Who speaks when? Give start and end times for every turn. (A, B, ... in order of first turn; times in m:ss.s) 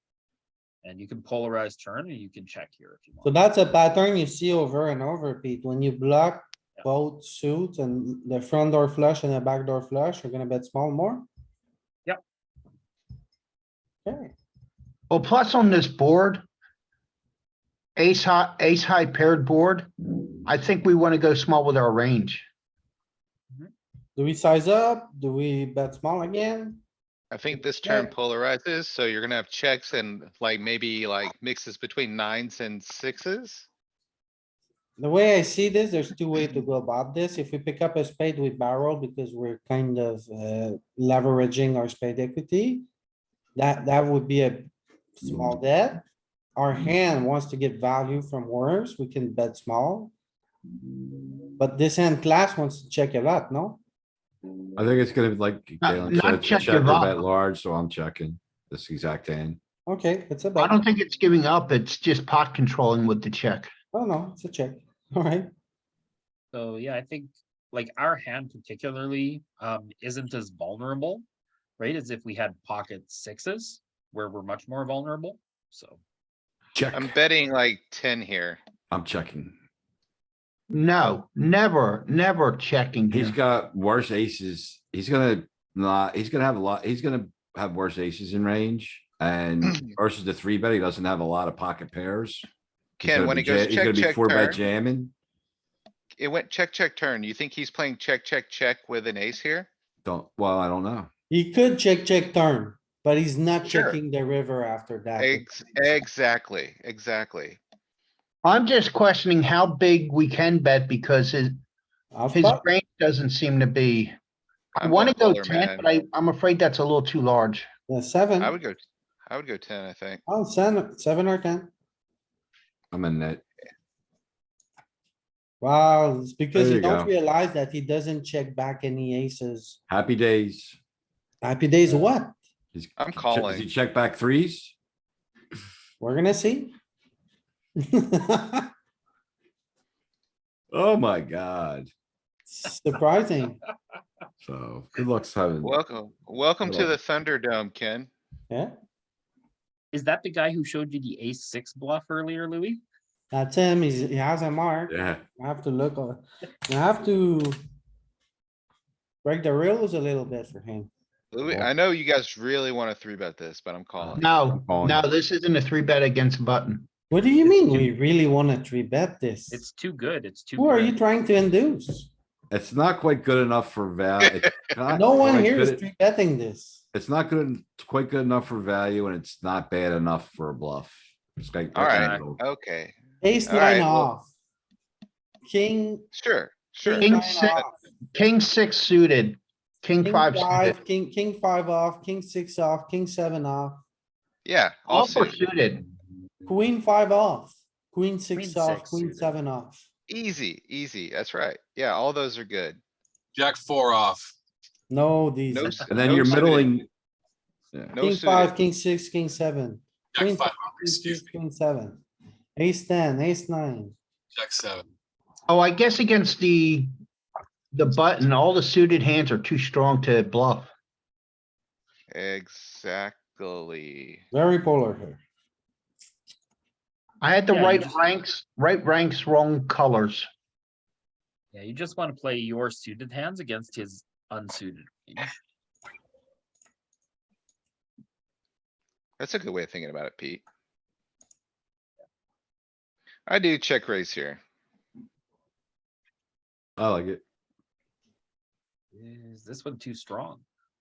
0:00.8-0:03.3 A
0:03.2-0:11.3 B
0:14.0-0:14.3 B
0:15.1-0:16.4 C
0:18.0-0:19.9 C
0:20.4-0:22.4 C
0:24.2-0:26.8 B
0:27.3-0:33.7 D
0:27.5-0:28.1 B
0:35.0-0:42.9 B
0:43.6-0:46.0 B
0:46.6-0:50.1 B
0:51.6-0:53.8 B
0:54.8-0:59.6 E
0:55.8-0:57.2 C
0:59.8-1:00.8 B
1:00.6-1:03.7 C
1:03.9-1:05.5 B
1:06.5-1:11.2 A
1:11.8-1:16.0 A
1:16.8-1:17.1 E
1:16.9-1:18.6 D
1:18.9-1:19.6 E
1:20.7-1:23.4 C
1:23.1-1:32.5 E
1:33.0-1:34.6 D
1:33.0-1:35.1 E
1:36.2-1:39.7 D
1:40.0-1:41.1 E
1:41.3-1:45.5 B
1:43.6-1:44.0 D
1:45.2-1:47.6 D
1:48.4-1:51.6 C
1:52.1-1:52.6 B
1:52.3-1:54.2 C
1:54.8-1:55.9 D
1:54.8-1:57.7 C
1:57.9-1:58.6 B
1:58.4-2:00.2 D
2:00.3-2:01.7 B
2:02.9-2:03.4 E
2:05.6-2:09.8 B
2:06.5-2:07.1 E
2:09.9-2:10.8 E
2:11.4-2:12.4 B
2:12.7-2:14.7 E
2:13.0-2:13.7 D
2:16.0-2:16.8 B
2:17.8-2:18.7 B
2:20.7-2:21.9 E
2:22.5-2:23.6 B
2:24.4-2:25.8 E
2:25.6-2:28.1 D
2:26.6-2:27.0 E
2:28.5-2:28.8 B
2:29.9-2:32.8 A
2:33.3-2:37.6 B
2:34.9-2:35.2 E
2:39.2-2:40.9 B
2:41.3-2:44.2 D
2:44.0-2:45.0 E
2:44.2-2:46.9 C
2:47.1-2:49.6 B
2:49.5-2:51.0 A
2:50.6-2:52.1 B
2:52.5-2:55.8 E
2:54.9-2:56.8 B
2:56.9-3:02.4 E
3:01.7-3:04.1 D
3:01.9-3:02.2 A
3:03.2-3:04.3 B
3:05.4-3:06.1 B
3:06.1-3:07.6 D
3:06.8-3:07.7 B
3:07.0-3:07.6 C
3:08.1-3:10.8 C
3:10.0-3:13.8 B
3:14.4-3:15.4 D
3:14.9-3:15.8 C
3:16.4-3:19.9 B
3:18.3-3:19.4 A
3:20.1-3:22.8 D
3:23.3-3:24.3 F
3:24.9-3:26.4 B
3:25.5-3:26.8 D
3:25.9-3:26.9 E
3:27.9-3:28.5 D
3:28.0-3:32.0 B
3:30.1-3:31.4 F
3:32.6-3:34.0 B
3:34.3-3:34.8 F
3:35.5-3:36.9 C
3:37.7-3:40.7 C
3:42.1-3:44.2 D
3:44.3-3:45.2 B
3:47.2-3:50.3 C
3:47.5-3:48.0 A
3:51.5-3:55.3 A
3:59.2-4:00.4 D
4:03.3-4:04.4 D
4:06.8-4:07.2 E
4:08.9-4:10.4 A